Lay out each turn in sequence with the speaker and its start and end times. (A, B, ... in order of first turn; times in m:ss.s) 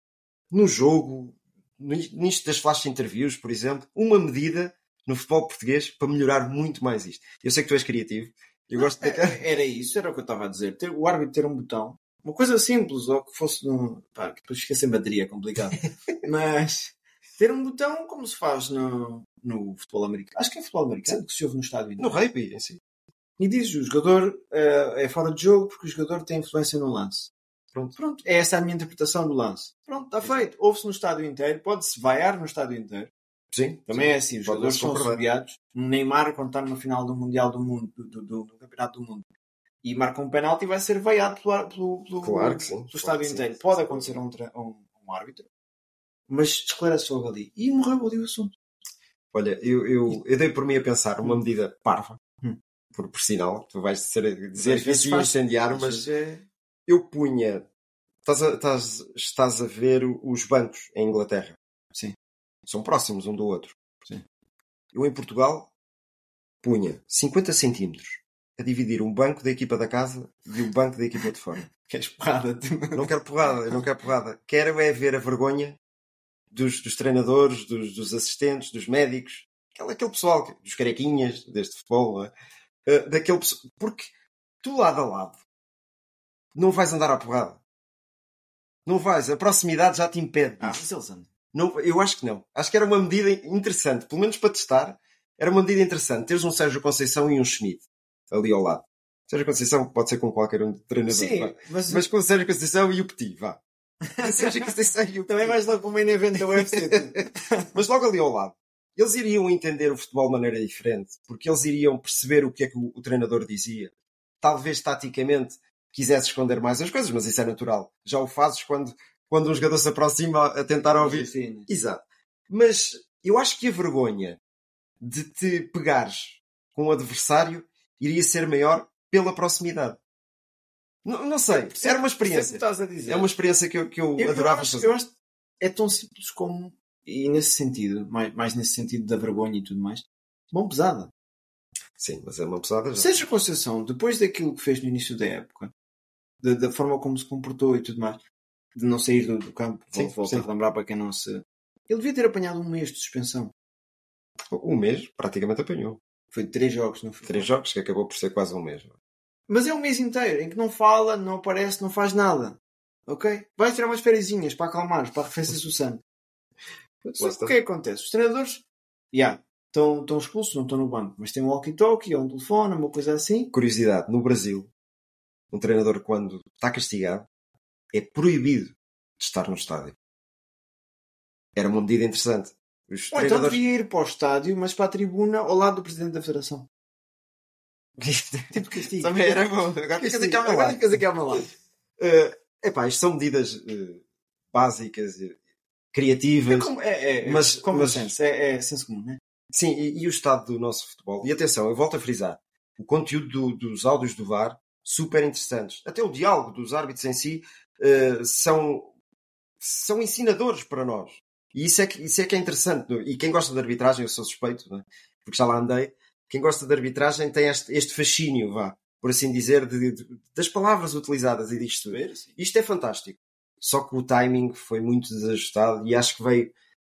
0:00.5-0:09.4 A
0:08.8-0:22.2 B
0:22.0-0:22.8 A
0:23.4-0:27.3 B
0:28.0-0:33.1 B
0:30.2-0:30.5 A
0:33.5-0:35.2 A
0:33.9-0:39.3 B
0:39.8-0:45.5 B
0:42.2-0:44.2 A
0:46.3-0:48.5 B
0:49.3-0:52.2 A
0:52.2-0:52.6 B
0:52.9-0:56.0 A
0:54.6-0:56.5 B
0:56.9-0:57.7 A
0:58.2-1:01.6 A
1:02.7-1:03.8 A
1:04.9-1:05.7 A
1:06.6-1:11.6 A
1:11.7-1:13.1 B
1:13.0-1:15.8 A
1:16.5-1:22.3 A
1:22.9-1:24.1 A
1:24.6-1:25.4 A
1:26.5-1:27.6 A
1:28.9-1:30.8 A
1:30.6-1:31.3 B
1:31.5-1:43.6 A
1:41.1-1:42.0 B
1:44.2-1:44.7 B
1:44.2-1:45.6 A
1:45.3-1:47.6 B
1:46.6-1:47.2 A
1:47.7-2:04.4 A
2:01.0-2:01.7 B
2:05.0-2:10.0 A
2:11.0-2:14.9 A
2:11.5-2:13.3 B
2:14.2-2:21.1 B
2:22.0-2:23.1 A
2:23.0-2:25.7 B
2:26.4-2:28.2 B
2:28.8-2:33.5 B
2:29.9-2:30.5 A
2:34.5-2:36.0 A
2:36.3-2:37.5 B
2:37.2-2:38.9 A
2:39.5-2:46.0 B
2:47.0-2:47.5 A
2:47.2-2:53.5 B
2:53.5-2:54.7 A
2:55.5-2:57.3 A
2:57.9-3:00.0 A
3:01.6-3:03.6 A
3:03.1-3:06.7 B
3:08.0-3:10.8 A
3:08.5-3:09.4 B
3:10.0-3:11.5 B
3:12.0-3:15.4 A
3:15.9-3:18.1 A
3:16.5-3:19.2 B
3:19.5-3:28.9 A
3:29.6-3:46.5 A
3:41.8-3:42.4 B